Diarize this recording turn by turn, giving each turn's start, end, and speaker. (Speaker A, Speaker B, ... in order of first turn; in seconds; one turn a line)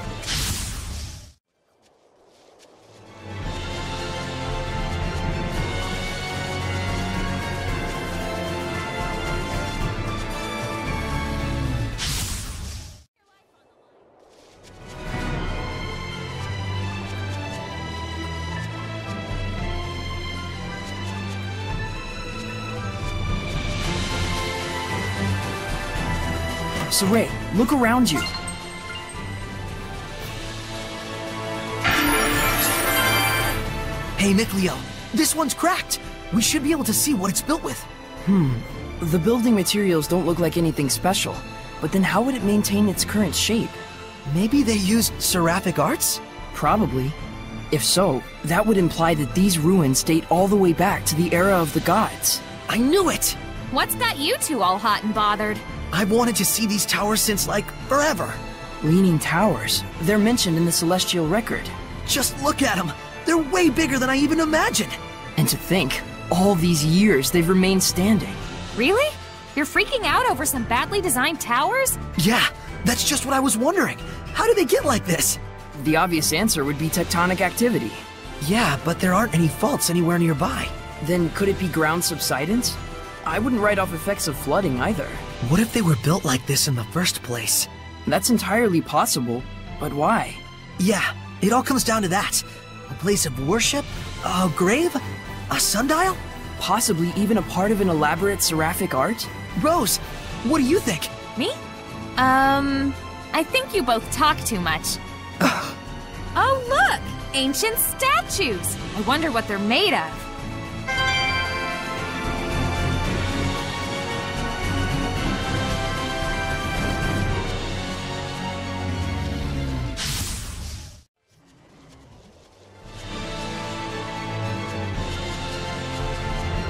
Speaker A: 26.9-28.3
Speaker B: 34.2-37.9
Speaker A: 38.2-43.8
Speaker B: 44.2-46.2
Speaker A: 46.5-47.2
Speaker A: 47.7-52.4
Speaker B: 52.7-53.4
Speaker C: 53.7-55.6
Speaker B: 55.9-58.4
Speaker A: 58.8-61.7
Speaker B: 62.0-65.0
Speaker A: 65.4-68.4
Speaker C: 68.7-72.0
Speaker B: 72.2-75.4
Speaker A: 75.7-78.0
Speaker B: 78.4-80.7
Speaker A: 81.0-85.2
Speaker B: 85.4-87.7
Speaker A: 88.0-90.4
Speaker B: 90.8-96.2
Speaker A: 96.6-99.3
Speaker B: 99.6-101.1
Speaker C: 102.2-105.0
Speaker B: 105.4-105.7
Speaker C: 106.3-110.3